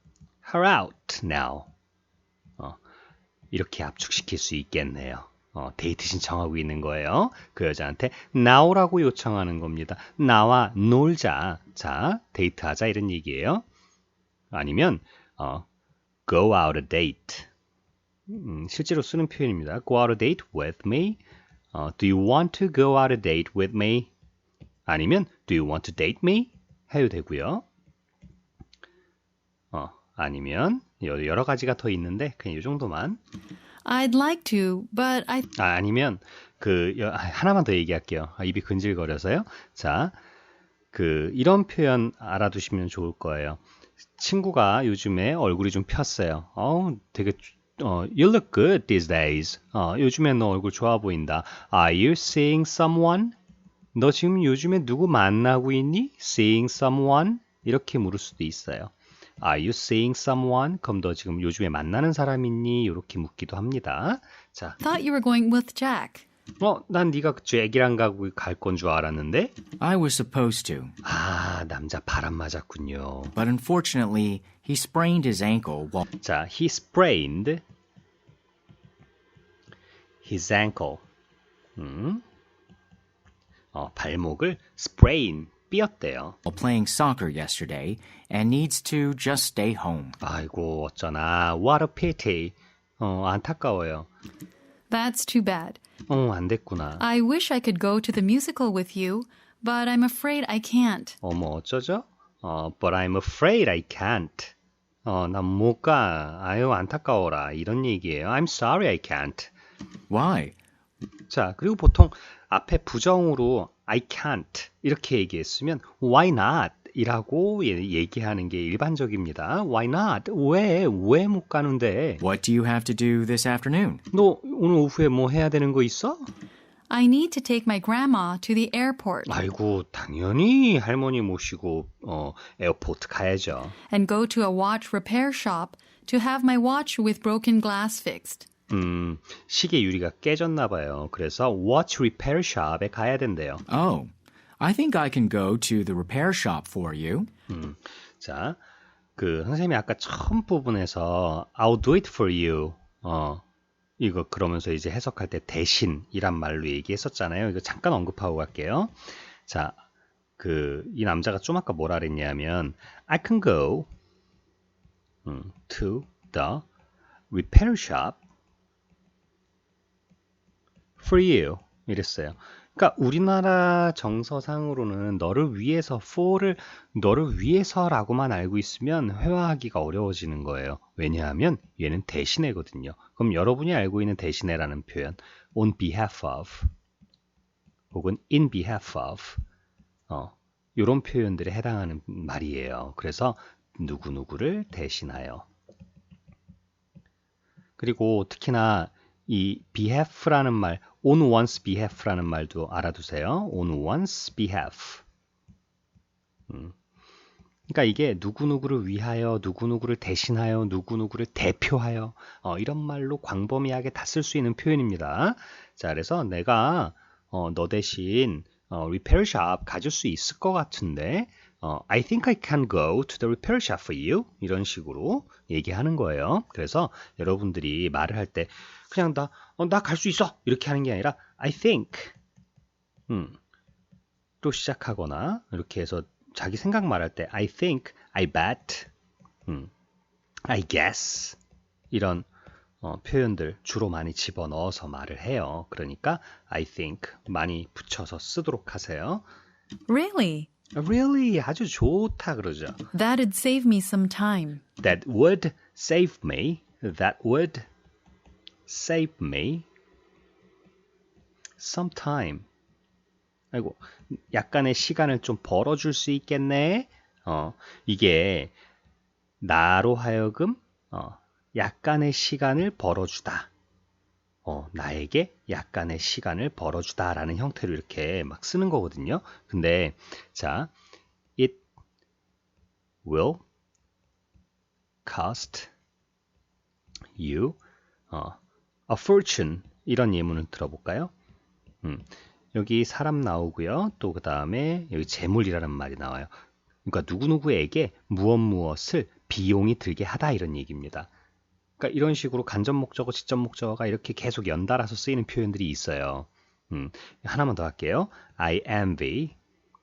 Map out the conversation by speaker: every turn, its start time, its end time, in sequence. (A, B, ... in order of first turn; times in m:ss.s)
0:00.4-0:01.7 A
0:03.5-0:13.6 A
0:14.5-0:15.7 A
0:16.3-0:17.5 A
0:18.3-0:21.2 A
0:21.7-0:24.1 A
0:24.9-0:27.6 A
0:29.7-0:33.2 A
0:33.8-0:35.5 B
0:35.6-0:40.2 A
0:40.9-0:43.6 A
0:44.2-0:53.4 A
0:54.0-1:04.8 A
1:04.8-1:06.2 B
1:06.6-1:09.5 A
1:09.8-1:10.9 C
1:11.0-1:13.4 A
1:13.4-1:16.0 C
1:16.2-1:17.6 A
1:20.2-1:21.0 A
1:21.8-1:22.2 A
1:23.7-1:26.4 A
1:26.4-1:30.2 C
1:30.2-1:34.1 A
1:34.9-1:35.8 B
1:36.1-1:37.0 A
1:37.0-1:41.2 B
1:41.2-1:44.5 A
1:45.0-1:49.5 A
1:50.1-1:50.6 C
1:51.3-2:02.2 A
2:02.2-2:04.0 C
2:04.1-2:06.3 A
2:06.9-2:09.4 B
2:09.3-2:13.8 A
2:13.9-2:18.5 B
2:18.7-2:23.6 A
2:23.7-2:27.3 C
2:27.5-2:28.6 A
2:29.2-2:33.4 A
2:34.0-2:39.8 A
2:40.4-2:43.9 A
2:45.2-2:46.6 A
2:47.3-2:48.2 A
2:51.0-3:06.7 A
3:07.9-3:09.4 A
3:10.1-3:15.5 A
3:17.8-3:25.0 A
3:26.5-3:26.8 A
3:27.7-3:52.2 A
3:53.1-3:53.4 A
3:54.4-3:58.9 A
4:00.5-4:01.4 A
4:01.9-4:02.3 A
4:02.8-4:09.2 A
4:09.9-4:10.5 B
4:10.8-4:12.8 A
4:12.9-4:14.6 B
4:14.8-4:17.7 A
4:18.7-4:19.6 A
4:21.6-4:22.4 A
4:23.5-4:28.5 A
4:29.4-4:33.5 A
4:34.4-4:40.7 A
4:43.0-4:43.4 A
4:45.0-4:45.7 A
4:47.2-4:47.6 A
4:48.1-4:51.1 A
4:51.8-4:56.3 A
4:56.9-5:01.1 A
5:01.8-5:09.4 A